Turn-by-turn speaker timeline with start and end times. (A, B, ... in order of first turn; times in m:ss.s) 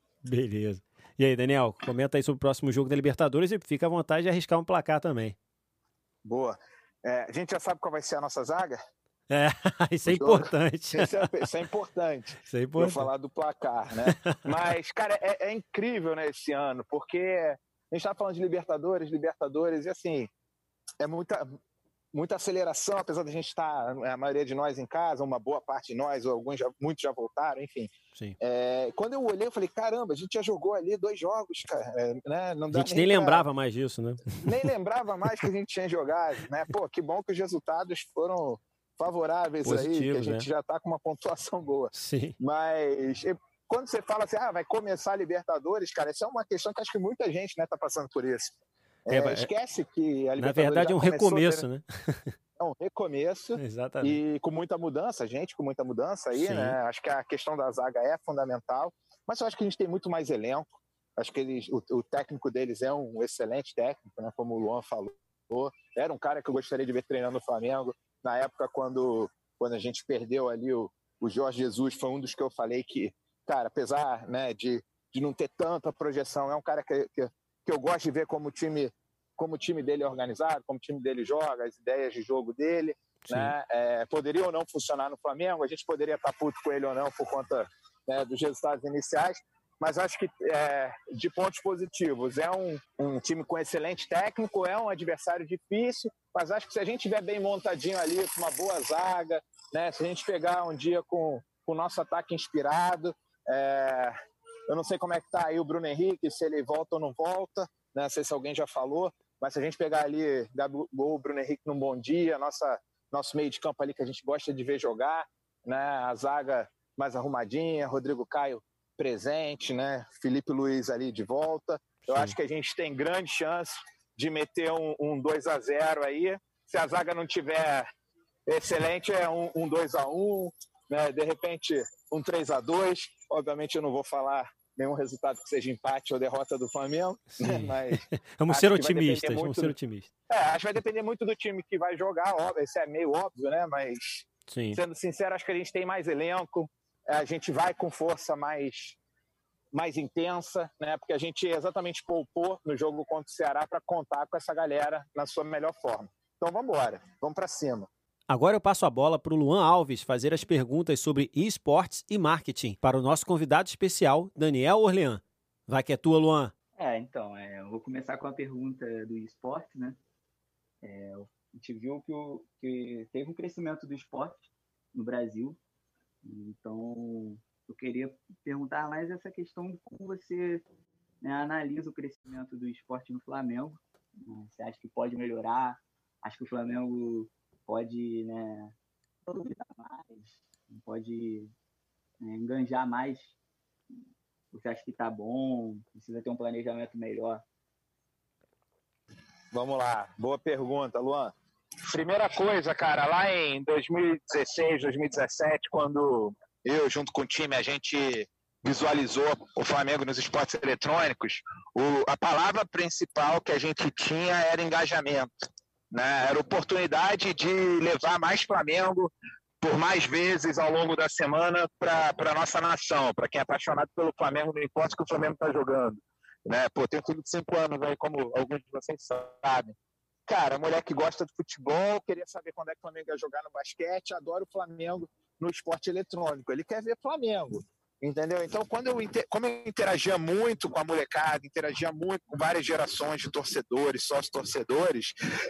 0:00.2-0:05.4 A
0:06.2-0:08.8 B
0:09.3-0:11.5 A
0:10.0-0:20.3 B
0:12.5-0:13.1 A
0:14.0-0:14.4 A
0:21.0-0:21.6 B
0:22.1-0:33.4 B
0:32.7-0:34.7 A
0:34.4-0:48.5 B
0:39.6-0:40.4 A
0:41.9-0:42.4 A
0:49.1-0:51.6 B
0:49.1-0:49.5 A
0:50.4-0:52.4 A
0:52.6-1:44.2 B
0:53.6-0:54.2 A
0:56.3-0:56.8 A
1:23.2-1:23.5 A
1:44.7-2:07.9 B
2:02.0-2:02.3 A
2:08.5-2:19.7 B
2:17.4-2:20.1 A
2:20.3-2:29.0 B
2:24.5-2:24.8 A
2:29.7-2:37.9 B
2:38.3-2:46.5 A
2:46.8-2:50.0 C
2:50.8-2:55.6 C
2:56.2-3:00.6 C
3:01.2-3:08.7 C
3:09.2-3:11.5 C
3:12.2-3:13.4 C
3:14.5-3:17.4 C
3:19.5-3:35.3 B
3:35.9-3:49.8 B
3:50.3-4:05.1 B